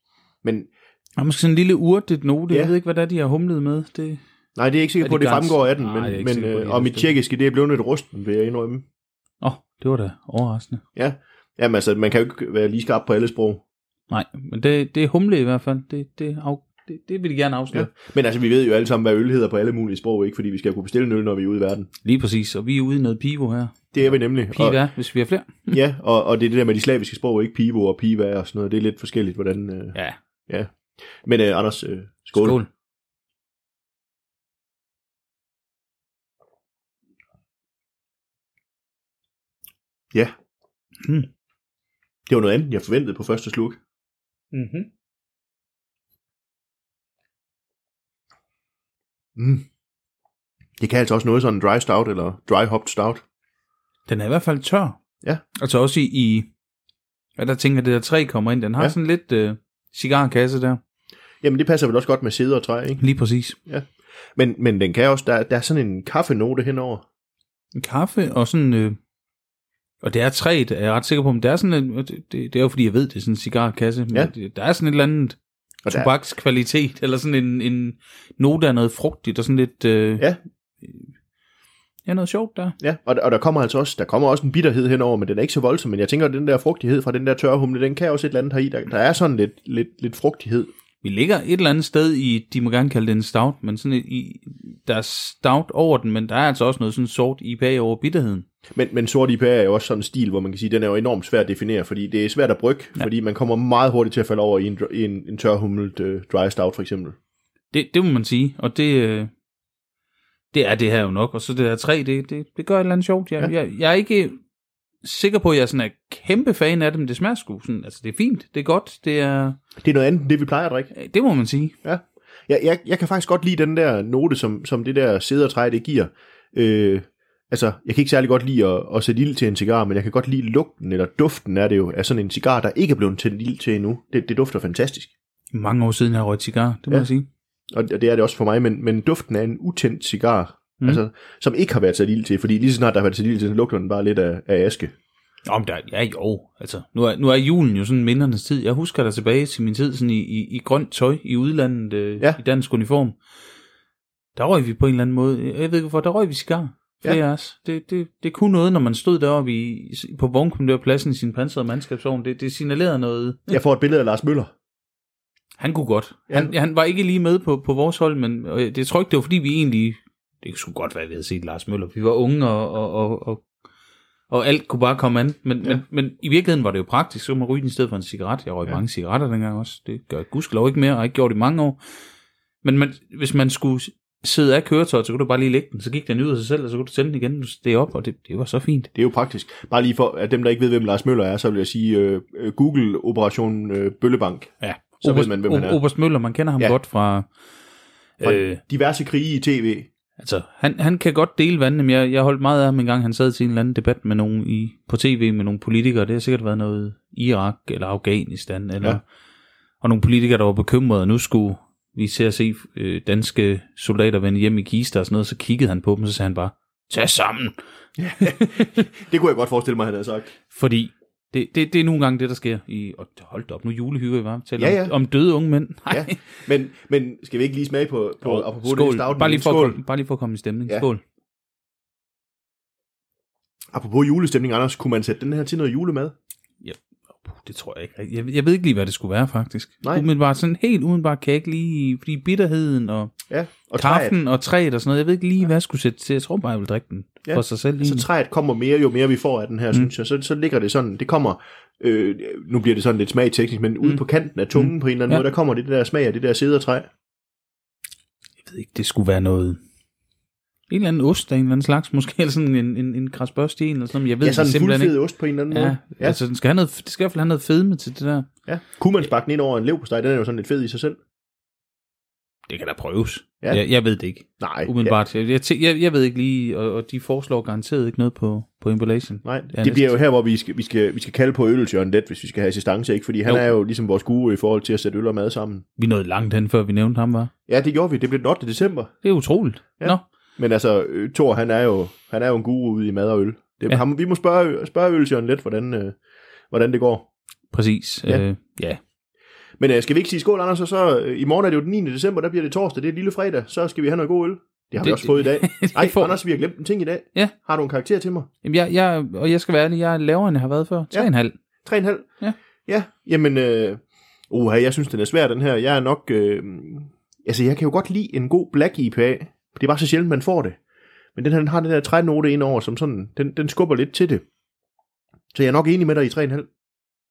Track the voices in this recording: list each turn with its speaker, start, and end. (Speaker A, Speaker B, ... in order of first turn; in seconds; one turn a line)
Speaker A: 0.4-0.7
Speaker B: 1.2-4.2
Speaker A: 2.5-2.7
Speaker A: 4.5-8.8
Speaker B: 5.0-7.2
Speaker B: 9.4-10.8
Speaker A: 10.9-13.6
Speaker B: 14.1-17.9
Speaker A: 17.7-21.9
Speaker B: 22.0-25.8
Speaker A: 23.9-24.8
Speaker A: 25.7-30.0
Speaker A: 30.5-32.6
Speaker B: 32.3-32.7
Speaker B: 41.0-41.3
Speaker A: 42.3-43.8
Speaker B: 44.5-44.9
Speaker A: 49.4-49.6
Speaker A: 50.8-53.2
Speaker B: 54.1-55.0
Speaker B: 55.6-56.5
Speaker B: 57.4-60.8
Speaker A: 61.4-63.0
Speaker B: 63.0-63.6
Speaker A: 63.7-67.0
Speaker B: 67.7-69.0
Speaker B: 70.0-80.3
Speaker A: 75.8-76.1
Speaker B: 80.8-81.1
Speaker B: 82.0-82.8
Speaker A: 82.8-90.7
Speaker B: 91.0-98.4
Speaker A: 98.7-107.2
Speaker B: 107.7-109.3
Speaker B: 110.5-114.4
Speaker B: 115.0-119.6
Speaker A: 119.8-120.9
Speaker B: 120.9-121.7
Speaker A: 121.8-135.1
Speaker B: 135.5-137.3
Speaker A: 137.7-144.9
Speaker B: 145.5-153.2
Speaker B: 154.3-163.6
Speaker A: 163.5-164.5
Speaker B: 165.6-173.4
Speaker B: 174.3-181.8
Speaker B: 182.6-188.9
Speaker A: 188.9-195.8
Speaker B: 194.6-197.3
Speaker B: 198.2-198.6
Speaker A: 198.2-199.9
Speaker B: 200.2-209.0
Speaker B: 209.8-217.5
Speaker A: 218.0-220.3
Speaker B: 218.2-218.8
Speaker B: 220.5-226.3
Speaker A: 224.6-224.9
Speaker A: 225.9-229.8
Speaker B: 228.2-231.0
Speaker A: 233.7-236.1
Speaker B: 236.6-243.1
Speaker A: 243.3-244.2
Speaker B: 243.8-248.1
Speaker A: 247.2-256.9
Speaker B: 254.5-255.2
Speaker B: 258.4-259.6
Speaker B: 260.7-264.9
Speaker A: 264.2-266.2
Speaker B: 265.5-268.3
Speaker A: 268.5-271.0
Speaker B: 272.5-280.0
Speaker A: 274.4-274.9
Speaker A: 279.2-285.6
Speaker B: 283.2-283.5
Speaker B: 285.8-287.3
Speaker A: 287.5-289.0
Speaker B: 289.0-290.0
Speaker A: 289.8-295.9
Speaker A: 296.5-297.1
Speaker B: 297.5-298.8
Speaker A: 299.6-308.3
Speaker B: 304.8-306.2
Speaker B: 308.4-311.4
Speaker A: 311.6-312.1
Speaker A: 312.6-320.6
Speaker A: 321.1-324.2
Speaker A: 325.3-326.5